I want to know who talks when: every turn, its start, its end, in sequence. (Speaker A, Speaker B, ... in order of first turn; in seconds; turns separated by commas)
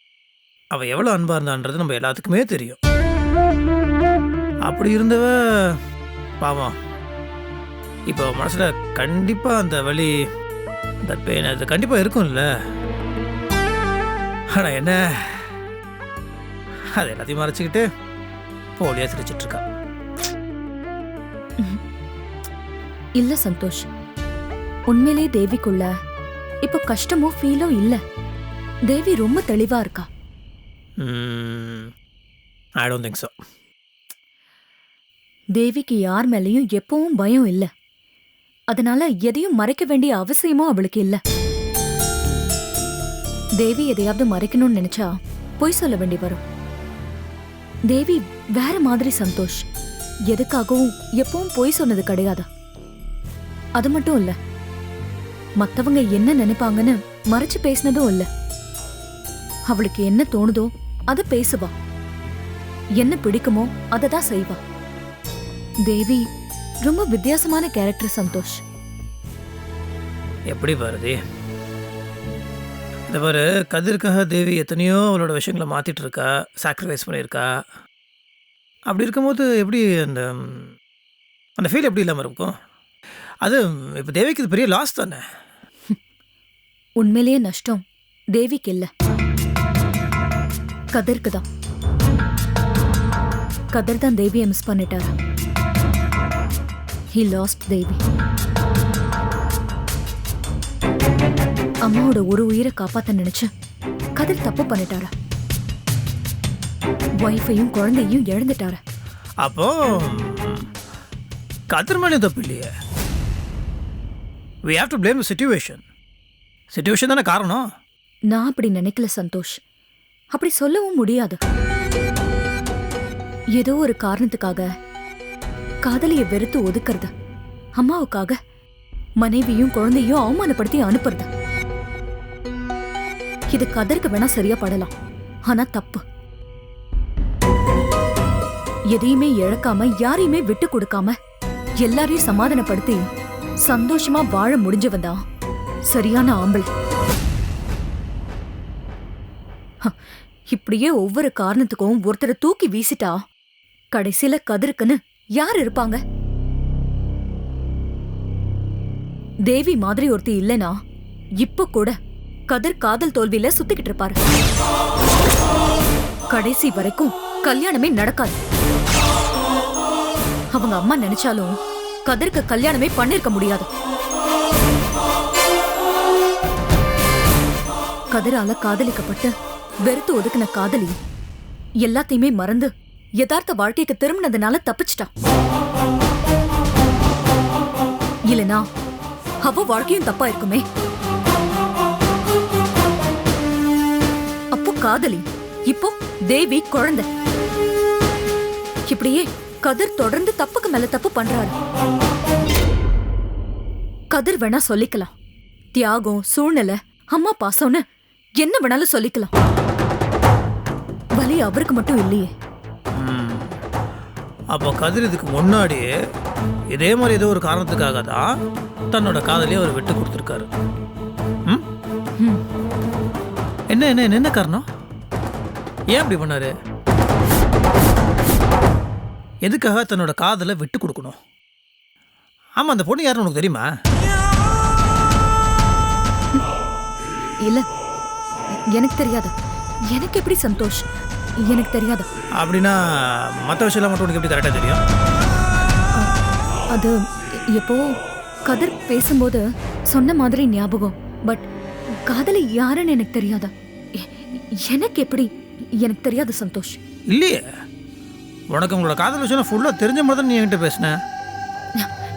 Speaker A: 0.7-2.8, Speaker A: 4.7-5.8, Speaker A: 6.4-6.8, Speaker A: 8.1-10.2, Speaker A: 11.1-12.5, Speaker A: 14.5-15.5, Speaker A: 16.9-17.9, Speaker A: 18.8-19.6, Speaker B: 23.2-23.9, Speaker B: 24.9-25.9, Speaker B: 26.6-28.0, Speaker B: 28.9-30.1, Speaker A: 31.0-31.9, Speaker A: 32.8-33.3, Speaker B: 35.6-37.7, Speaker B: 38.7-41.2, Speaker B: 43.6-46.4, Speaker B: 47.9-49.6, Speaker B: 50.3-52.5, Speaker B: 53.8-54.4, Speaker B: 55.6-58.3, Speaker B: 59.7-61.7, Speaker B: 63.0-64.6, Speaker B: 65.9-66.2, Speaker B: 66.8-68.6, Speaker A: 70.5-71.2, Speaker A: 73.1-77.5, Speaker A: 78.9-80.7, Speaker A: 81.6-82.6, Speaker A: 83.4-85.2, Speaker B: 87.0-87.8, Speaker B: 88.3-88.9, Speaker B: 90.9-91.4, Speaker B: 93.7-95.1, Speaker B: 97.2-98.0, Speaker B: 101.9-103.5, Speaker B: 104.2-105.1, Speaker B: 107.2-108.8, Speaker A: 109.4-110.7, Speaker A: 111.7-112.7, Speaker A: 114.7-115.8, Speaker A: 116.7-117.6, Speaker B: 118.3-119.6, Speaker B: 120.3-121.4, Speaker B: 123.6-124.7, Speaker B: 125.8-127.1, Speaker B: 127.8-128.4, Speaker B: 129.2-131.3, Speaker B: 133.5-134.9, Speaker B: 135.5-136.0, Speaker B: 138.9-141.2, Speaker B: 141.8-143.0, Speaker B: 143.7-145.2, Speaker B: 145.9-146.7, Speaker B: 150.5-153.2, Speaker B: 153.9-156.0, Speaker B: 159.5-160.8, Speaker B: 161.4-161.9, Speaker B: 162.5-164.2, Speaker B: 166.3-168.4, Speaker B: 170.6-171.5, Speaker B: 172.1-173.7, Speaker B: 178.1-179.3, Speaker B: 179.8-180.9, Speaker B: 181.8-185.1, Speaker B: 188.3-188.6, Speaker B: 189.4-190.6, Speaker B: 194.5-197.1, Speaker B: 198.9-201.5, Speaker B: 204.1-205.1, Speaker B: 205.7-207.8, Speaker B: 208.4-209.3, Speaker B: 211.2-212.3, Speaker A: 213.0-213.5, Speaker A: 214.5-215.9, Speaker A: 216.7-218.3, Speaker A: 218.9-220.5, Speaker A: 223.7-224.7, Speaker A: 225.9-226.6, Speaker A: 229.4-231.2, Speaker A: 232.6-233.7, Speaker B: 238.7-239.3, Speaker B: 239.9-240.8, Speaker B: 241.5-242.1, Speaker A: 242.4-242.8, Speaker A: 243.4-244.8, Speaker B: 247.5-247.9, Speaker B: 248.5-251.5, Speaker B: 252.1-255.3, Speaker B: 255.8-256.8, Speaker A: 257.1-257.4, Speaker A: 258.5-261.0